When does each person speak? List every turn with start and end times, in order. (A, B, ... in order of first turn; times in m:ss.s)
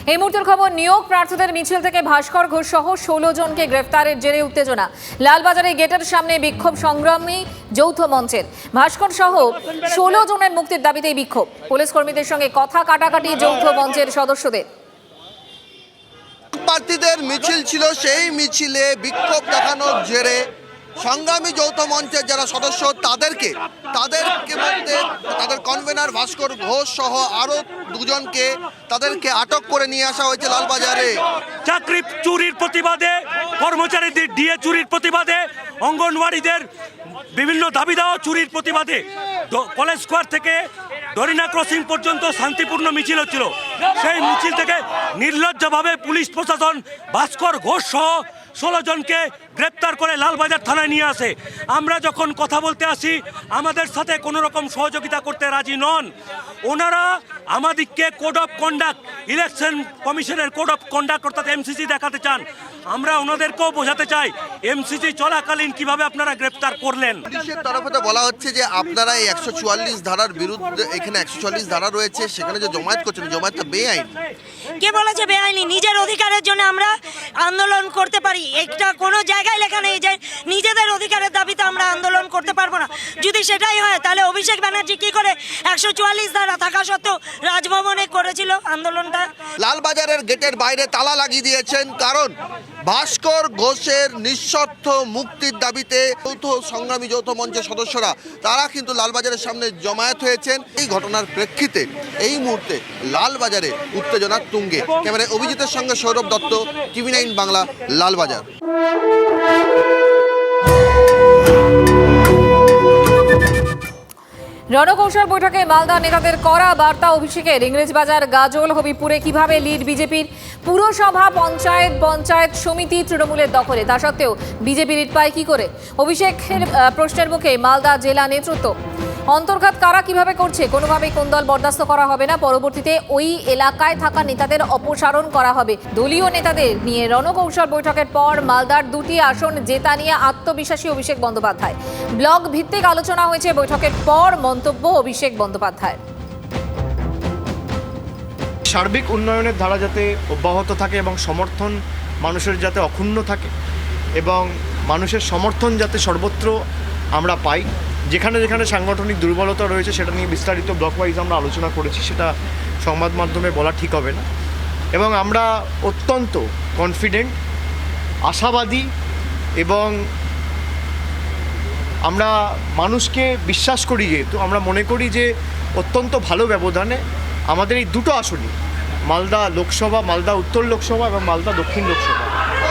0:00.2-0:04.7 A
0:05.3-0:14.6 A
0:16.6-0:20.4 B
0:21.0-0:31.1 B
0:31.6-0:36.7 C
0:37.4-0:40.6 C
0:41.1-0:56.1 C
0:56.7-1:07.2 C
1:07.3-1:14.1 B
1:14.8-1:16.9 D
1:17.4-1:29.3 D
1:29.6-1:32.3 B
1:32.9-1:48.5 B
1:54.8-2:04.2 A
2:04.8-2:08.6 A
2:09.5-2:15.0 A
2:16.8-2:21.6 A
2:22.4-2:25.0 A
2:28.7-2:33.5 E
2:34.2-2:36.6 E
2:37.2-2:42.3 E
2:42.8-2:44.2 E
2:45.0-2:47.4 E
2:48.3-2:48.9 E
2:49.6-2:50.0 E
2:52.0-2:58.5 E
2:59.1-3:02.3 E